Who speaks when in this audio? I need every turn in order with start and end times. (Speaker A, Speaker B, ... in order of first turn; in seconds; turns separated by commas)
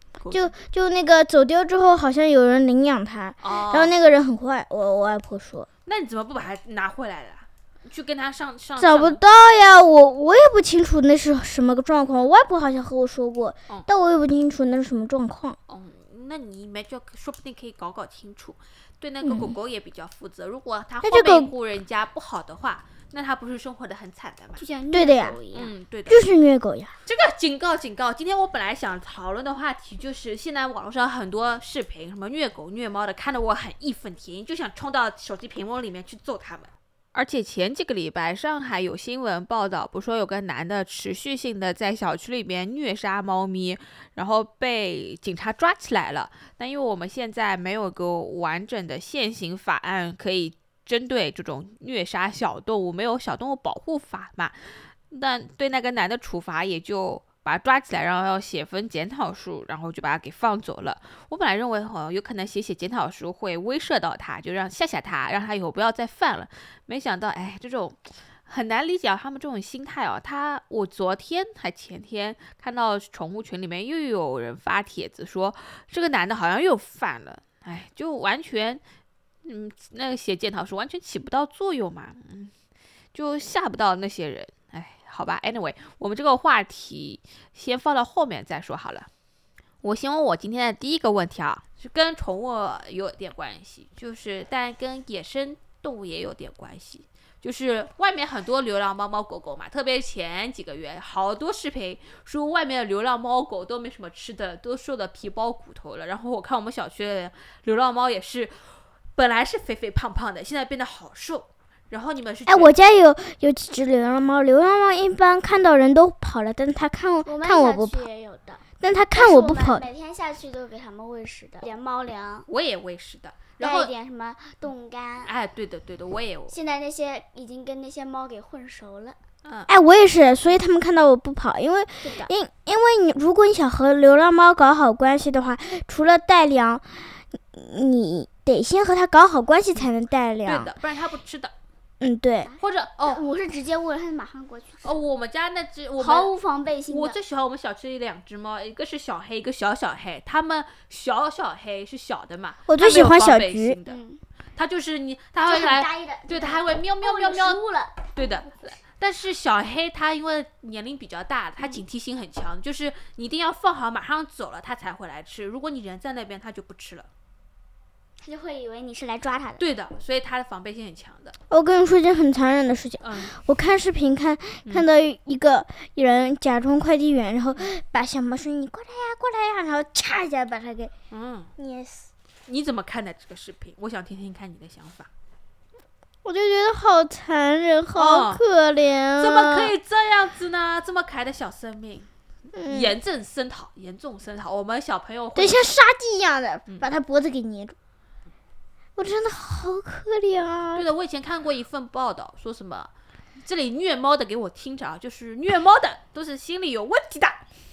Speaker A: 0.2-0.5, Speaker B: 0.3-5.7, Speaker A: 3.4-3.9, Speaker A: 5.9-9.2, Speaker B: 8.8-15.6, Speaker A: 15.7-24.6, Speaker B: 19.2-19.5, Speaker B: 21.0-21.5, Speaker C: 24.6-25.7, Speaker B: 24.9-25.4, Speaker A: 25.5-26.2, Speaker B: 26.1-26.9, Speaker A: 27.1-78.8, Speaker A: 79.4-82.5, Speaker A: 83.1-89.1, Speaker A: 89.8-112.7, Speaker B: 112.5-118.0, Speaker C: 117.3-122.5, Speaker B: 118.8-119.8, Speaker A: 122.5-123.9, Speaker C: 123.6-125.3, Speaker A: 125.2-126.5, Speaker C: 126.5-129.2, Speaker B: 129.7-140.7, Speaker C: 132.0-132.3, Speaker A: 140.4-141.5, Speaker B: 142.0-142.5, Speaker C: 142.5-145.0, Speaker A: 142.6-143.2, Speaker A: 144.8-146.3, Speaker C: 146.0-147.2, Speaker A: 146.9-154.0, Speaker B: 152.7-153.8, Speaker C: 153.9-154.2, Speaker A: 154.6-157.6, Speaker C: 155.4-158.1, Speaker A: 158.1-167.1, Speaker C: 168.2-169.6, Speaker A: 169.6-171.3, Speaker B: 171.5-180.9, Speaker A: 173.0-173.3, Speaker A: 181.1-181.5, Speaker B: 181.6-182.1, Speaker A: 182.5-185.1, Speaker B: 186.2-189.7, Speaker A: 187.9-188.4, Speaker A: 189.1-192.1, Speaker B: 192.5-192.9, Speaker A: 192.7-195.7, Speaker B: 195.4-197.8, Speaker B: 199.0-200.8, Speaker A: 200.7-207.4